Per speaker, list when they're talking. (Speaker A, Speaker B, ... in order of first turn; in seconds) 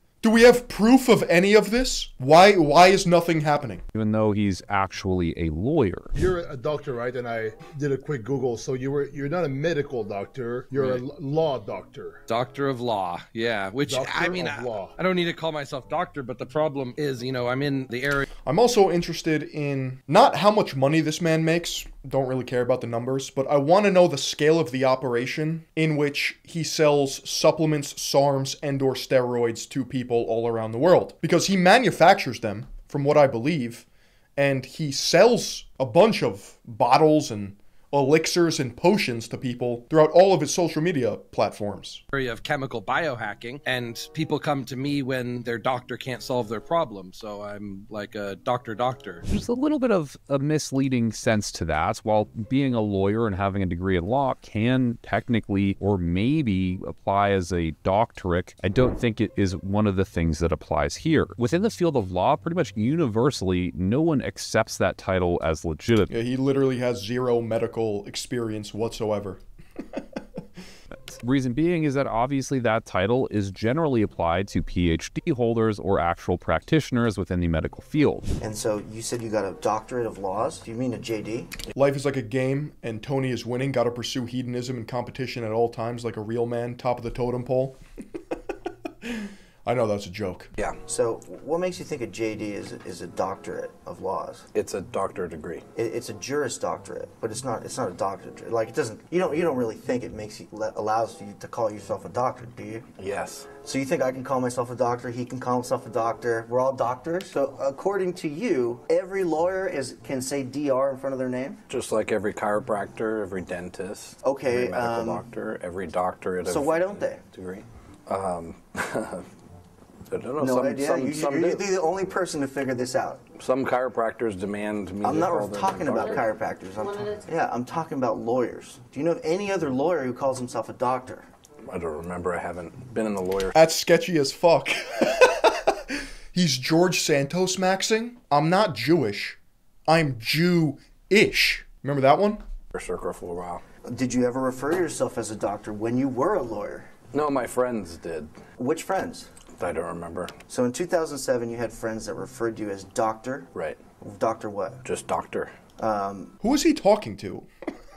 Speaker A: 0.2-3.8, 18.4-42.0, 66.1-69.4, 81.7-87.8, 89.0-90.5, 133.5-142.4, 156.4-157.5
Speaker B: 3.9-6.1, 49.3-66.1, 71.1-78.3
Speaker C: 6.1-12.2, 13.8-15.0
Speaker D: 10.8-11.0, 12.3-18.2, 42.1-49.2
Speaker E: 78.4-81.5, 90.8-94.5, 95.8-102.8, 103.6-111.6, 114.2-115.2, 116.5-117.2, 120.4-123.2, 125.0-131.3, 143.8-146.9, 148.6-149.3, 150.5-154.8, 155.8-156.3
Speaker F: 94.5-95.7, 103.0-103.5, 111.7-119.3, 120.1-121.8, 123.4-126.2, 131.7-133.5, 142.7-143.6, 147.1-148.3, 149.6-150.3, 153.5-153.8, 154.8-155.6